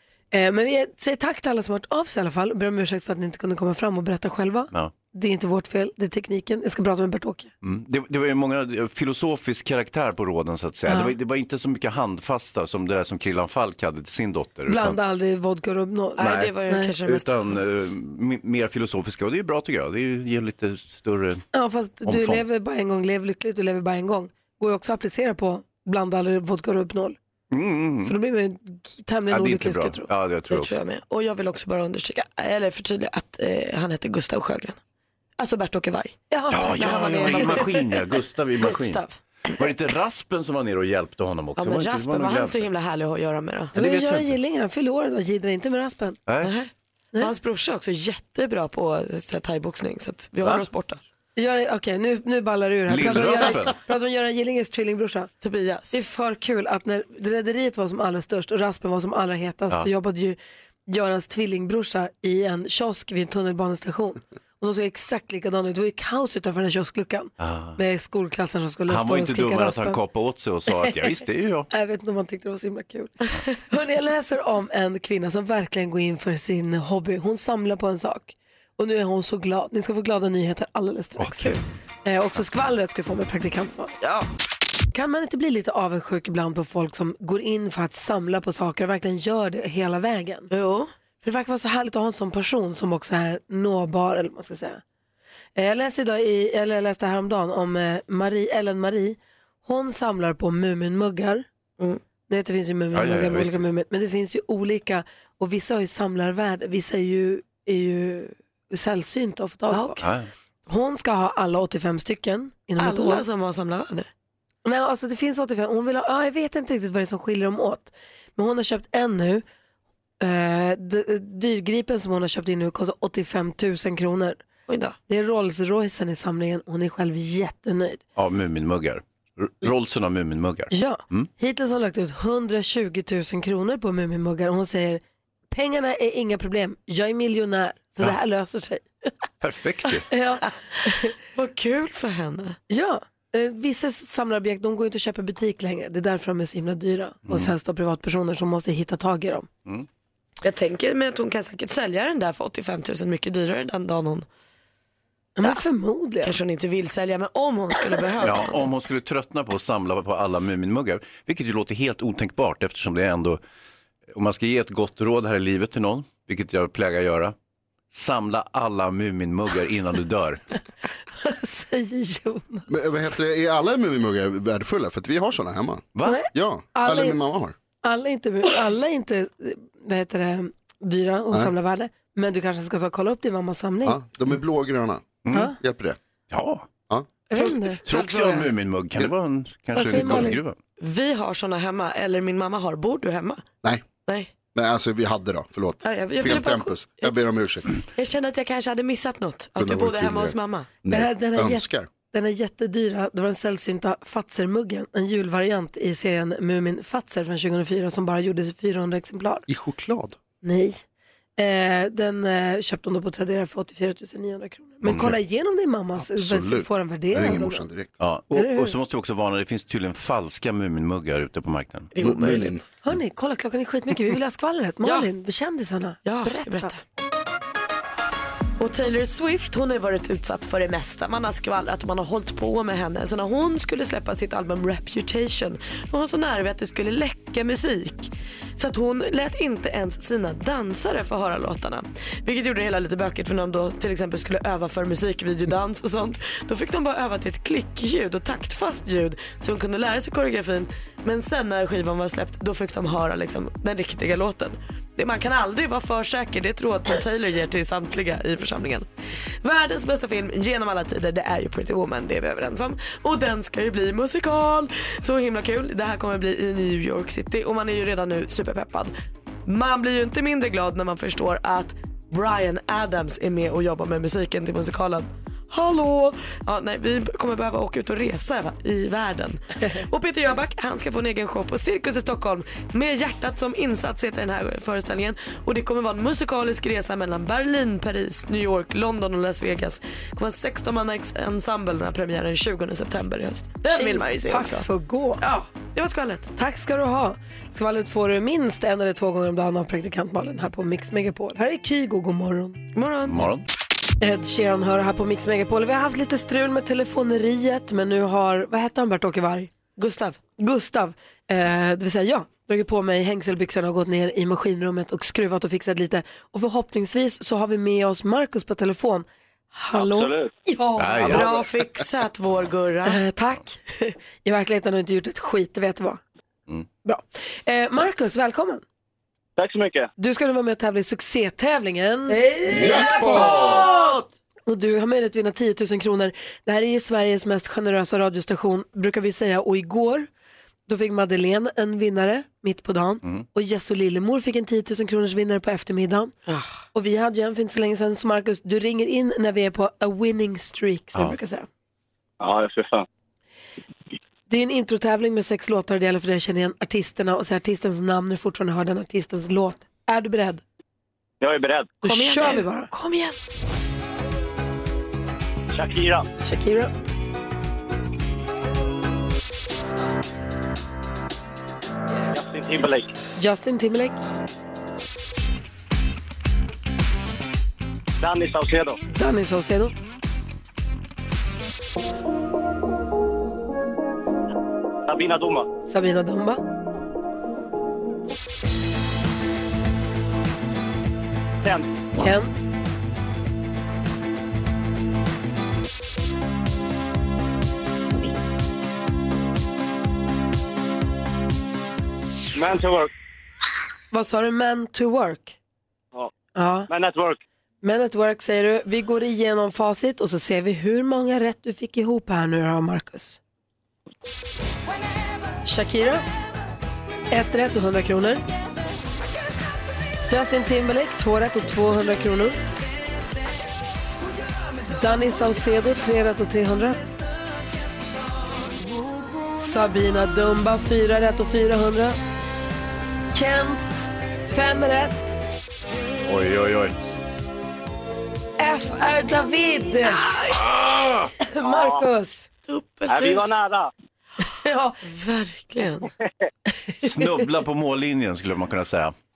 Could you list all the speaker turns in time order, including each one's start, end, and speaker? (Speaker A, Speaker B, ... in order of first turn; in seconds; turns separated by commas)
Speaker A: 0.3-7.5, Speaker B: 7.6-15.0, Speaker A: 10.9-11.1, Speaker A: 14.7-16.9, Speaker C: 16.2-17.4, Speaker B: 16.2-16.5, Speaker B: 17.0-21.4, Speaker A: 21.5-27.2, Speaker B: 22.1-22.4, Speaker B: 27.5-28.2, Speaker A: 28.0-30.1, Speaker B: 29.3-30.8, Speaker C: 30.5-34.8, Speaker C: 35.4-36.2, Speaker A: 36.3-37.8, Speaker B: 36.5-39.0, Speaker C: 36.8-38.0, Speaker C: 38.6-39.2, Speaker B: 39.5-42.7, Speaker C: 41.6-43.7, Speaker B: 43.7-44.4, Speaker A: 43.8-46.2, Speaker B: 46.3-46.5, Speaker C: 46.4-51.0, Speaker A: 51.4-55.3, Speaker B: 52.9-53.8, Speaker C: 53.0-53.6, Speaker C: 55.4-56.0, Speaker A: 55.9-70.0, Speaker B: 67.4-67.8, Speaker B: 68.9-71.7, Speaker A: 71.7-84.0, Speaker B: 81.2-81.5, Speaker C: 84.0-84.3, Speaker A: 84.9-90.5, Speaker C: 90.5-90.9, Speaker A: 91.2-94.8, Speaker A: 95.6-101.5, Speaker A: 102.3-110.0, Speaker B: 102.9-103.7, Speaker C: 109.7-110.0, Speaker B: 110.0-110.3, Speaker A: 110.7-113.2, Speaker C: 112.8-114.1, Speaker A: 114.7-119.4, Speaker A: 120.2-124.4, Speaker C: 124.7-125.0, Speaker A: 125.1-128.0, Speaker B: 128.2-131.3, Speaker A: 130.7-138.8, Speaker B: 139.4-140.1, Speaker A: 140.1-141.1, Speaker C: 141.3-142.6, Speaker A: 142.7-149.5, Speaker B: 147.3-147.5, Speaker C: 150.4-154.3, Speaker A: 155.4-156.4, Speaker C: 156.2-158.6, Speaker B: 158.2-163.4, Speaker B: 164.1-167.3, Speaker B: 167.9-170.4, Speaker A: 171.2-172.7, Speaker D: 172.7-177.6, Speaker B: 175.9-176.2, Speaker A: 176.0-177.2, Speaker A: 177.8-184.0, Speaker D: 183.8-186.0, Speaker B: 185.3-185.5, Speaker B: 186.3-186.7, Speaker A: 187.3-187.8, Speaker C: 187.3-188.5, Speaker B: 187.9-190.6, Speaker A: 189.8-190.4, Speaker C: 190.8-193.4, Speaker D: 194.5-197.7, Speaker C: 195.8-197.1, Speaker C: 198.0-200.7, Speaker D: 199.6-201.9, Speaker A: 200.9-209.5, Speaker D: 209.5-210.2, Speaker A: 210.4-210.8, Speaker A: 211.4-217.7, Speaker D: 214.8-215.2, Speaker D: 216.0-217.9, Speaker B: 218.0-221.9, Speaker A: 218.3-218.8, Speaker C: 221.9-222.6, Speaker D: 222.0-222.6, Speaker A: 222.8-226.7, Speaker C: 224.8-225.1, Speaker C: 226.1-226.8, Speaker C: 228.6-258.9, Speaker C: 259.4-268.9, Speaker C: 269.5-294.7, Speaker A: 293.7-295.2, Speaker C: 295.2-296.3, Speaker A: 296.4-302.6, Speaker C: 302.8-303.3, Speaker B: 303.1-303.4, Speaker A: 304.0-309.5, Speaker C: 309.8-310.2, Speaker A: 310.4-321.3, Speaker E: 319.8-320.3, Speaker B: 320.8-321.3, Speaker C: 321.1-323.0, Speaker A: 322.9-326.0, Speaker A: 326.9-328.6, Speaker E: 329.4-329.9, Speaker A: 330.0-333.8, Speaker C: 332.5-333.6, Speaker A: 334.5-340.1, Speaker A: 340.7-346.1, Speaker C: 346.3-346.6, Speaker A: 346.7-351.5, Speaker E: 352.2-352.9, Speaker A: 354.3-360.4, Speaker E: 361.2-361.8, Speaker A: 361.8-362.7, Speaker C: 361.8-363.2, Speaker E: 365.5-366.1, Speaker A: 366.2-366.7, Speaker E: 372.1-372.9, Speaker A: 373.2-374.0, Speaker E: 378.0-378.8, Speaker A: 378.9-379.7, Speaker E: 384.9-385.5, Speaker A: 385.7-386.4, Speaker A: 392.0-392.3, Speaker E: 402.3-402.9, Speaker A: 403.9-405.4, Speaker A: 406.4-406.7, Speaker E: 406.7-407.2, Speaker A: 407.6-413.2, Speaker A: 415.4-416.1, Speaker A: 417.1-418.2, Speaker A: 420.1-422.4, Speaker A: 424.7-426.9, Speaker A: 429.4-432.0, Speaker A: 433.1-435.1, Speaker B: 436.1-436.9, Speaker A: 438.4-440.1, Speaker C: 439.9-440.3, Speaker B: 440.5-441.1, Speaker A: 441.2-442.3, Speaker E: 441.4-441.9, Speaker C: 442.5-443.3, Speaker E: 442.9-443.7, Speaker A: 444.3-444.8, Speaker C: 444.8-445.9, Speaker B: 446.8-448.9